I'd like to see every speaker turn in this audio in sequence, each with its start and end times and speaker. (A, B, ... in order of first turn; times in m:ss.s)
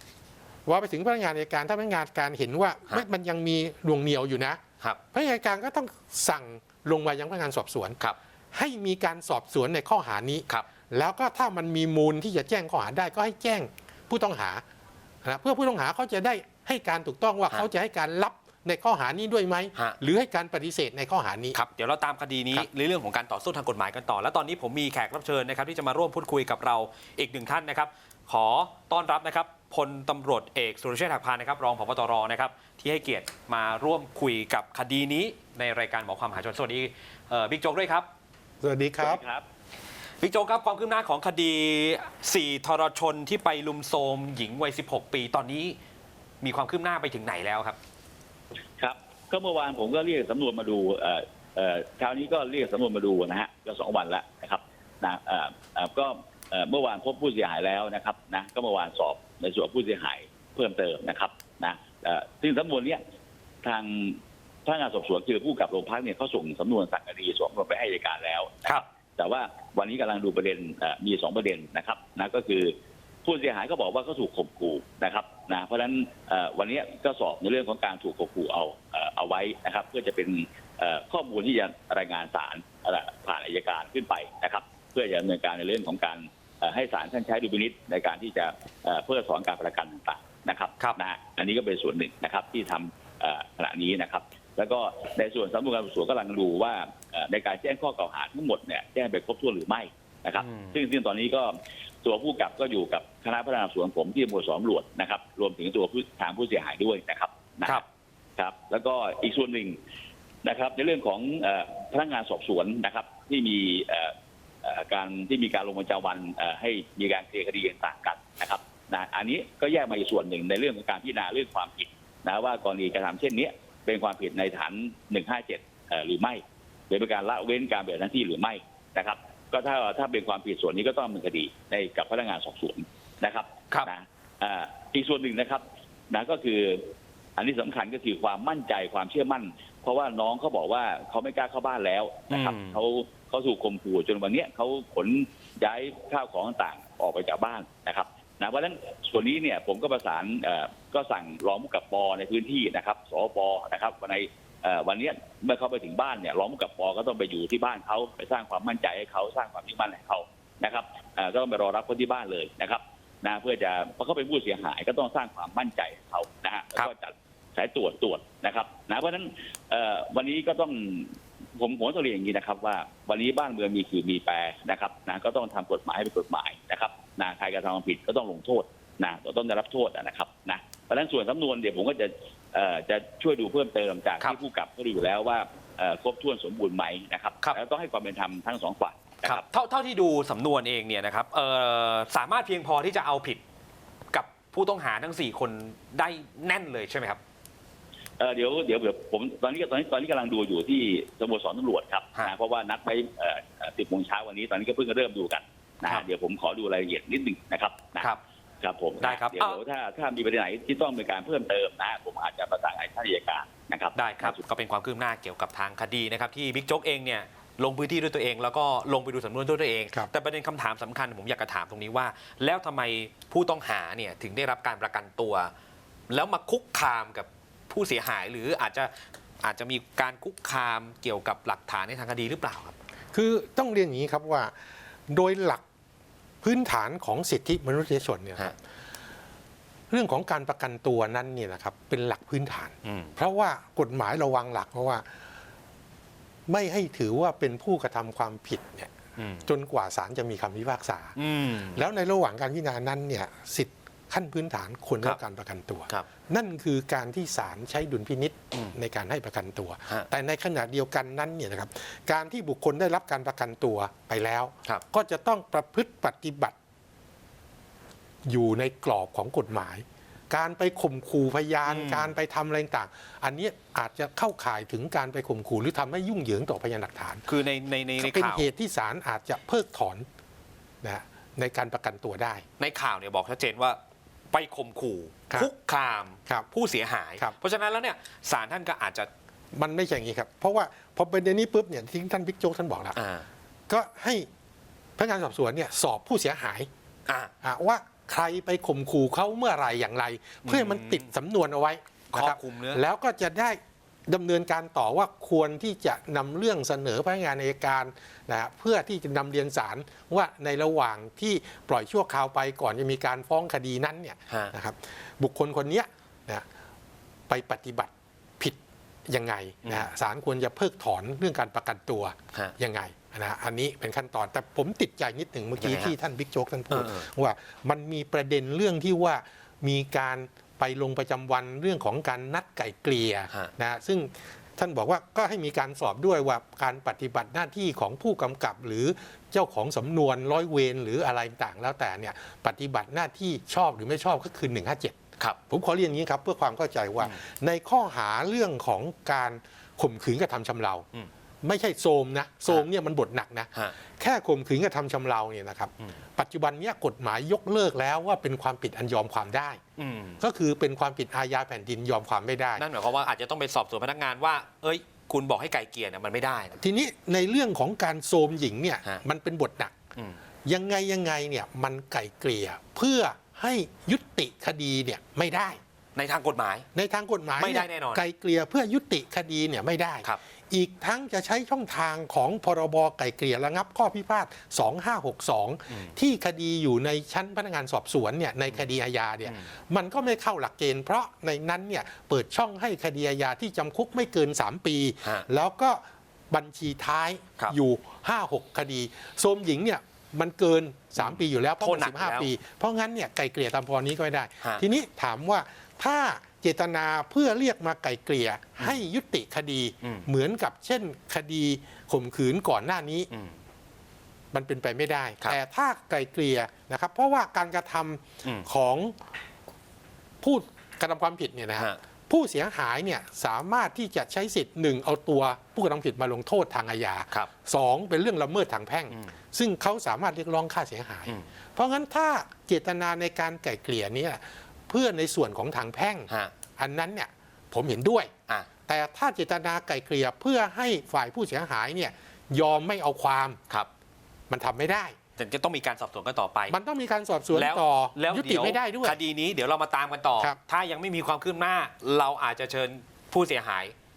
0:00.7-0:04.6 A
0:05.1-0:08.0 A
0:08.5-0:14.6 A
0:15.2-0:21.6 A
0:21.5-0:38.1 B
0:38.6-0:39.2 A
0:39.0-0:39.4 C
0:40.2-0:45.8 B
0:46.4-0:47.8 B
0:48.8-1:03.0 C
1:03.6-1:12.7 C
1:13.2-1:41.5 C
1:40.4-1:40.8 B
1:42.0-1:47.8 C
1:48.4-1:49.8 C
1:50.4-3:09.4 C
2:22.3-2:22.8 B
3:09.2-3:13.4 B
3:14.1-3:17.2 B
3:18.2-3:34.4 C
3:29.0-3:29.6 B
3:34.0-3:45.5 B
3:46.1-3:52.8 B
3:53.1-3:54.5 A
3:55.1-3:55.6 A
3:56.4-3:58.6 A
3:59.9-4:05.1 A
4:02.8-4:03.2 B
4:06.5-4:08.9 A
4:09.2-4:09.5 B
4:09.4-4:11.2 A
4:11.2-4:11.8 B
4:11.7-4:26.6 A
4:28.3-4:37.2 A
4:31.7-4:32.1 B
4:37.3-4:38.5 B
4:38.0-4:40.1 A
4:40.8-4:42.4 A
4:42.6-4:43.8 B
4:44.3-4:49.1 B
4:49.5-4:53.0 A
4:53.0-4:53.3 B
4:53.7-4:54.3 A
4:55.0-4:56.7 A
4:57.1-4:57.3 B
4:57.4-5:16.4 A
5:00.4-5:01.1 B
5:02.1-5:02.8 B
5:14.3-5:14.5 B
5:17.3-5:45.0 A
5:19.6-5:19.9 B
5:25.6-5:25.9 B
5:26.7-5:27.1 B
5:45.5-5:50.9 A
5:51.4-5:59.6 A
5:59.8-6:00.2 B
6:00.2-6:02.7 A
6:02.6-6:06.6 B
6:06.6-6:09.8 A
6:10.4-6:15.6 A
6:16.0-6:16.7 B
6:16.7-6:53.1 A
6:17.4-6:18.0 B
6:35.0-6:35.3 B
6:41.0-6:42.3 B
6:49.8-6:50.1 B
6:53.1-6:53.4 B
6:54.3-6:59.0 A
7:00.2-7:18.1 A
7:18.7-7:23.4 A
7:24.3-7:25.0 A
7:25.2-7:26.6 B
7:26.5-7:29.0 A
7:27.3-7:33.7 B